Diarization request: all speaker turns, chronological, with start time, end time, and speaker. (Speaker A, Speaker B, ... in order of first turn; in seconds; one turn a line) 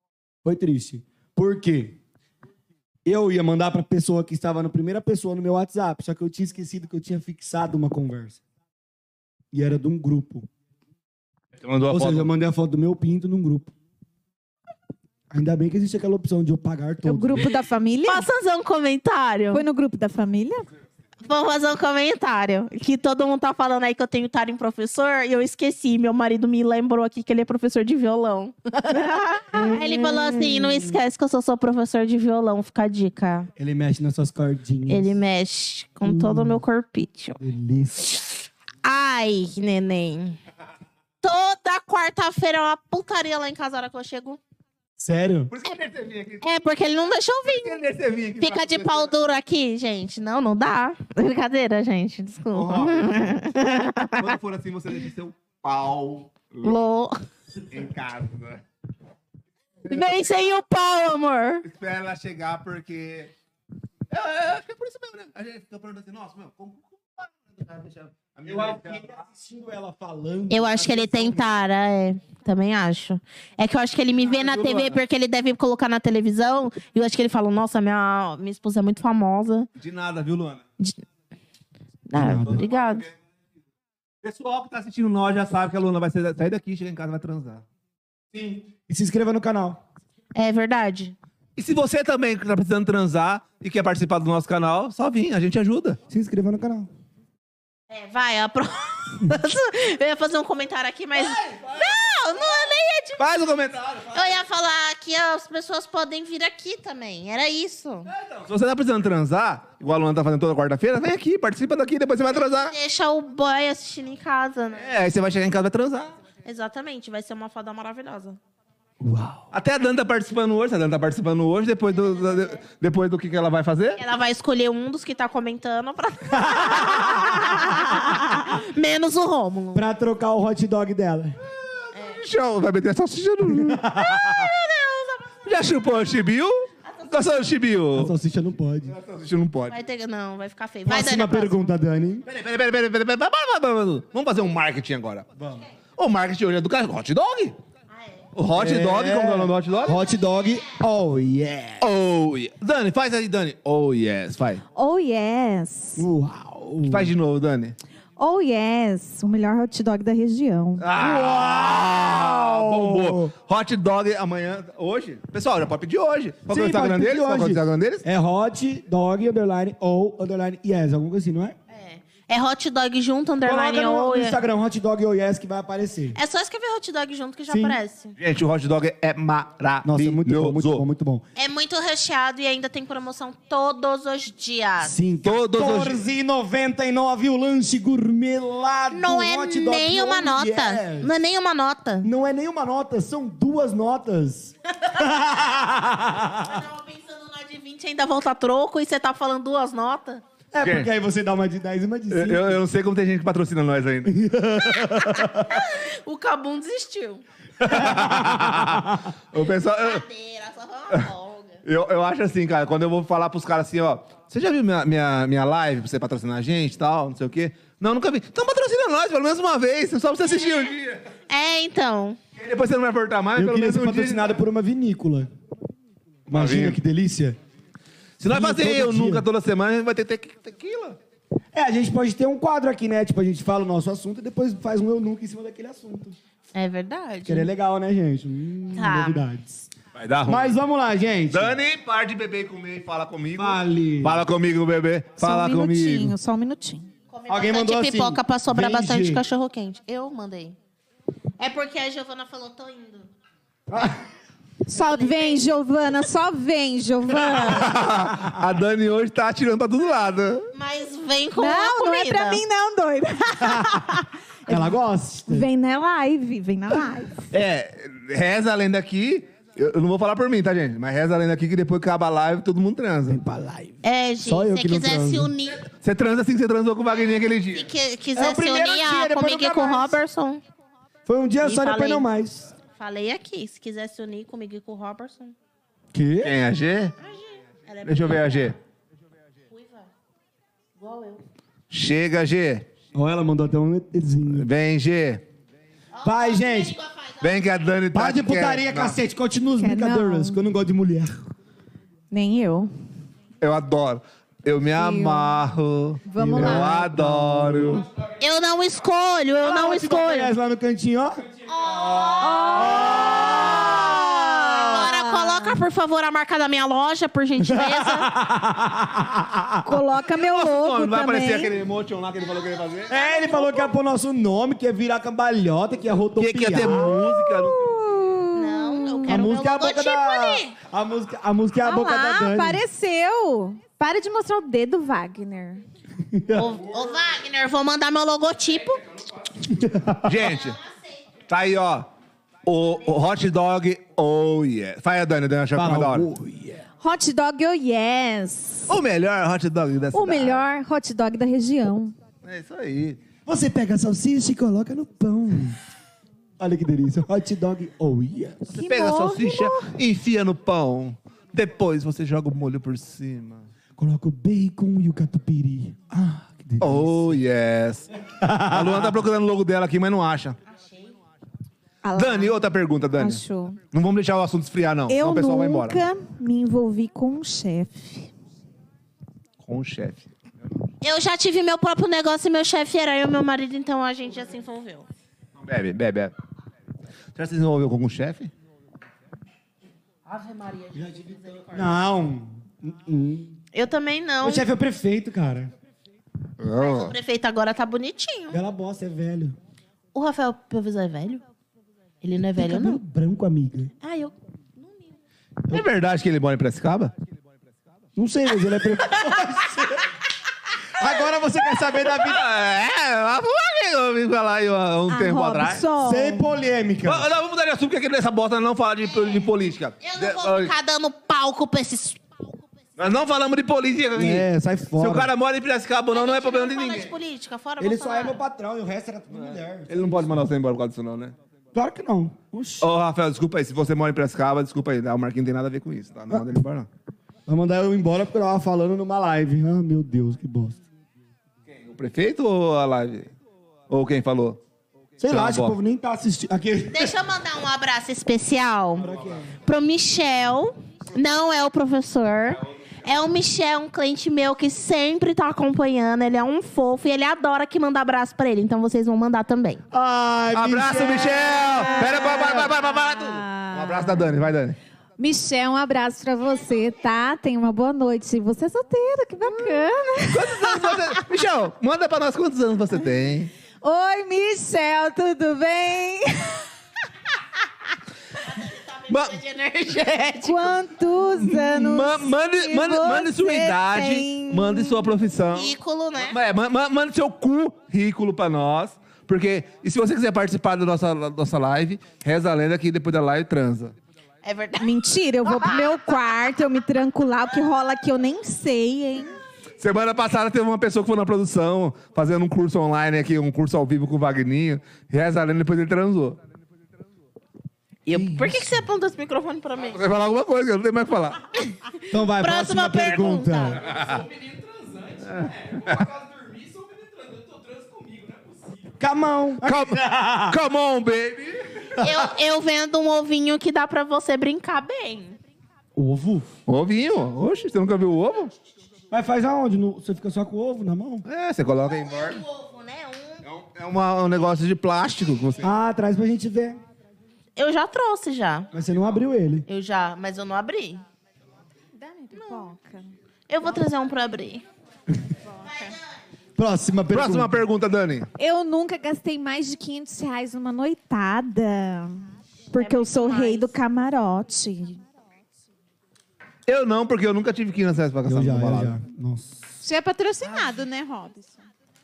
Speaker A: 0.4-2.0
Speaker A: 3.0-8.4
Speaker A: 9.5-10.5
Speaker B: 11.6-12.3
Speaker A: 11.9-13.7
Speaker A: 15.3-17.5
Speaker C: 17.0-18.3
Speaker D: 18.1-19.6
Speaker C: 19.5-20.7
Speaker D: 21.2-33.5
Speaker A: 29.5-30.8
Speaker A: 33.6-35.1
Speaker D: 34.9-37.4
Speaker A: 36.0-36.6
Speaker A: 37.4-38.3
Speaker D: 38.8-40.4
Speaker D: 41.2-44.4
Speaker A: 45.0-45.5
Speaker B: 45.5-46.5
Speaker D: 46.4-47.8
Speaker B: 47.4-49.1
Speaker D: 48.4-54.3
Speaker B: 52.5-53.4
Speaker B: 54.1-56.8
Speaker D: 56.6-57.2
Speaker B: 57.7-58.6
Speaker D: 59.9-61.6
Speaker B: 61.6-63.3
Speaker B: 64.1-69.1
Speaker A: 68.5-71.5
Speaker D: 70.5-79.7
Speaker B: 74.2-75.0
Speaker B: 79.8-80.6
Speaker D: 82.1-83.1
Speaker A: 82.2-82.6
Speaker B: 82.2-83.1
Speaker B: 84.2-87.6
Speaker A: 88.3-89.8
Speaker D: 90.3-91.1
Speaker B: 91.5-96.0
Speaker A: 96.1-96.9
Speaker D: 97.9-103.2
Speaker B: 101.2-101.9
Speaker B: 103.2-104.4
Speaker D: 104.1-108.1
Speaker B: 108.1-112.7
Speaker D: 112.3-114.9
Speaker B: 114.7-116.1
Speaker D: 116.4-118.4
Speaker A: 119.0-119.4
Speaker B: 119.5-124.0
Speaker D: 124.0-129.8
Speaker A: 126.5-126.9
Speaker A: 129.7-131.4
Speaker B: 131.9-134.1
Speaker D: 131.9-132.2
Speaker A: 133.5-134.3
Speaker D: 134.0-135.3
Speaker B: 135.4-138.1
Speaker D: 136.8-137.4
Speaker A: 137.9-138.9
Speaker B: 138.9-139.8
Speaker D: 139.7-141.6
Speaker A: 140.8-142.2
Speaker B: 142.2-145.3
Speaker A: 145.4-145.6
Speaker B: 146.0-147.6
Speaker B: 148.3-150.0
Speaker A: 148.5-151.9
Speaker D: 149.7-150.0
Speaker B: 151.8-154.6
Speaker C: 154.7-156.0
Speaker A: 155.9-157.1
Speaker B: 156.8-157.8
Speaker C: 158.2-160.9
Speaker B: 160.8-168.0
Speaker A: 160.9-163.3
Speaker A: 166.5-171.6
Speaker D: 171.7-174.4
Speaker A: 173.4-176.2
Speaker D: 176.1-178.2
Speaker A: 177.5-177.8
Speaker B: 178.2-180.8
Speaker A: 179.8-181.2
Speaker D: 181.3-184.9
Speaker A: 184.8-191.1
Speaker B: 185.2-186.0
Speaker D: 188.9-192.1
Speaker A: 192.0-196.4
Speaker D: 194.9-195.2
Speaker D: 196.2-200.2
Speaker A: 200.5-202.6
Speaker B: 200.6-200.9
Speaker B: 202.1-204.1
Speaker A: 204.1-205.6
Speaker D: 204.8-207.2
Speaker B: 207.6-210.0
Speaker A: 207.6-209.0
Speaker D: 209.3-211.6
Speaker B: 211.6-221.0
Speaker D: 220.4-220.7
Speaker D: 221.3-222.2
Speaker B: 222.3-224.3
Speaker A: 223.3-225.3
Speaker B: 226.3-226.8
Speaker A: 226.3-227.4
Speaker B: 228.2-231.0
Speaker A: 228.2-229.2
Speaker A: 231.5-236.2
Speaker D: 236.5-237.5
Speaker A: 237.2-239.7
Speaker D: 238.7-239.2
Speaker B: 239.9-240.6
Speaker A: 240.2-241.6
Speaker B: 241.3-246.1
Speaker A: 243.3-244.2
Speaker C: 245.2-246.9
Speaker D: 247.1-250.6
Speaker A: 247.3-249.2
Speaker D: 251.4-253.1
Speaker A: 253.7-254.0
Speaker C: 254.7-257.8
Speaker D: 254.8-255.5
Speaker B: 257.4-260.5
Speaker D: 260.5-262.4
Speaker C: 261.4-264.8
Speaker A: 264.5-265.5
Speaker C: 265.3-267.3
Speaker B: 267.3-273.2
Speaker A: 273.1-275.3
Speaker D: 273.8-275.6
Speaker B: 275.5-277.7
Speaker D: 277.4-280.4
Speaker A: 278.1-280.0
Speaker A: 281.1-282.5
Speaker D: 281.4-282.1
Speaker D: 282.8-285.3
Speaker A: 285.9-286.4
Speaker B: 286.2-286.9
Speaker D: 287.0-288.5
Speaker B: 287.8-288.5
Speaker D: 289.5-289.9
Speaker D: 290.8-291.2
Speaker B: 291.7-292.7
Speaker A: 292.9-294.5
Speaker B: 294.3-295.2
Speaker D: 295.9-297.4
Speaker A: 296.0-296.8
Speaker B: 297.2-299.0
Speaker A: 297.9-301.1
Speaker C: 299.6-300.4
Speaker C: 302.1-302.7
Speaker B: 303.4-307.9
Speaker C: 304.7-305.3
Speaker C: 306.1-306.8
Speaker A: 306.2-307.9
Speaker D: 308.2-310.3
Speaker A: 309.4-311.2
Speaker D: 311.5-318.1
Speaker C: 312.2-315.6
Speaker A: 312.5-314.9
Speaker A: 317.4-319.7
Speaker C: 319.6-321.5
Speaker B: 320.1-322.9
Speaker D: 322.4-323.6
Speaker A: 322.9-327.0
Speaker C: 323.2-323.5
Speaker B: 326.2-327.7
Speaker C: 326.7-329.2
Speaker D: 328.3-330.6
Speaker A: 329.1-332.6
Speaker C: 331.6-335.6
Speaker A: 336.1-336.5
Speaker D: 336.3-338.9
Speaker A: 339.4-340.2
Speaker B: 340.0-340.6
Speaker D: 340.2-341.0
Speaker B: 341.3-341.9
Speaker B: 342.4-346.1
Speaker A: 345.5-346.6
Speaker C: 346.8-348.7
Speaker B: 348.7-350.4
Speaker C: 349.9-351.9
Speaker B: 352.2-353.0
Speaker A: 353.2-355.6
Speaker A: 356.4-358.5
Speaker C: 358.5-359.7
Speaker B: 358.5-363.5
Speaker A: 363.8-367.2
Speaker B: 366.0-370.4
Speaker A: 368.2-368.9
Speaker D: 370.4-370.9
Speaker C: 371.8-372.4
Speaker B: 371.9-375.8
Speaker C: 372.9-373.6
Speaker C: 374.9-378.1
Speaker B: 379.4-380.1
Speaker D: 380.8-384.9
Speaker B: 385.4-386.1
Speaker B: 387.1-388.3
Speaker D: 390.1-391.7
Speaker A: 390.7-393.4
Speaker D: 393.5-394.4
Speaker A: 394.2-395.5
Speaker B: 396.4-396.9
Speaker D: 396.6-398.4
Speaker A: 398.3-399.4
Speaker D: 399.9-401.2
Speaker D: 402.0-402.8
Speaker A: 402.4-403.7
Speaker D: 403.8-405.0
Speaker B: 405.5-406.9
Speaker A: 407.9-409.9
Speaker A: 410.7-412.2
Speaker B: 411.9-415.7
Speaker C: 414.9-416.3
Speaker A: 415.8-417.1
Speaker B: 416.8-420.5
Speaker D: 418.8-419.3
Speaker D: 419.8-422.0
Speaker B: 422.8-426.9
Speaker A: 423.9-425.1
Speaker D: 425.9-428.2
Speaker A: 427.6-430.2
Speaker B: 429.1-431.1
Speaker A: 431.5-432.7
Speaker B: 432.6-436.7
Speaker A: 437.3-440.6
Speaker B: 441.5-443.1
Speaker B: 443.7-444.4
Speaker A: 445.0-446.9
Speaker B: 445.1-445.5
Speaker D: 446.7-448.8
Speaker A: 448.8-449.3
Speaker B: 448.8-449.1
Speaker D: 449.4-459.6
Speaker A: 459.7-462.5
Speaker B: 460.3-464.6
Speaker C: 461.4-464.2
Speaker C: 465.0-471.0
Speaker B: 469.2-473.3
Speaker C: 473.6-476.4
Speaker D: 478.2-480.6
Speaker B: 478.9-479.2
Speaker C: 480.2-484.9
Speaker B: 481.1-493.7
Speaker D: 485.3-486.2
Speaker D: 494.2-495.7
Speaker C: 494.6-499.1
Speaker B: 499.6-506.2
Speaker D: 507.9-509.8
Speaker B: 508.0-508.3
Speaker B: 509.6-511.2
Speaker A: 511.9-513.6
Speaker D: 512.2-513.6
Speaker E: 513.6-518.8
Speaker A: 518.8-520.4
Speaker B: 519.4-521.4
Speaker D: 521.8-525.2
Speaker A: 525.8-526.3
Speaker B: 526.5-528.3
Speaker A: 528.9-531.0
Speaker B: 531.0-532.2
Speaker D: 531.7-533.2
Speaker B: 533.2-535.5
Speaker A: 535.4-536.6
Speaker D: 537.4-538.5
Speaker A: 538.5-539.5
Speaker D: 539.5-540.8
Speaker C: 541.7-542.9
Speaker D: 542.1-542.5
Speaker D: 543.3-544.4
Speaker C: 545.3-545.6
Speaker D: 545.4-545.8
Speaker A: 546.4-547.4
Speaker B: 546.9-548.1
Speaker C: 548.2-554.8
Speaker D: 552.5-553.5
Speaker B: 556.5-558.8
Speaker A: 558.0-559.4
Speaker C: 559.6-561.4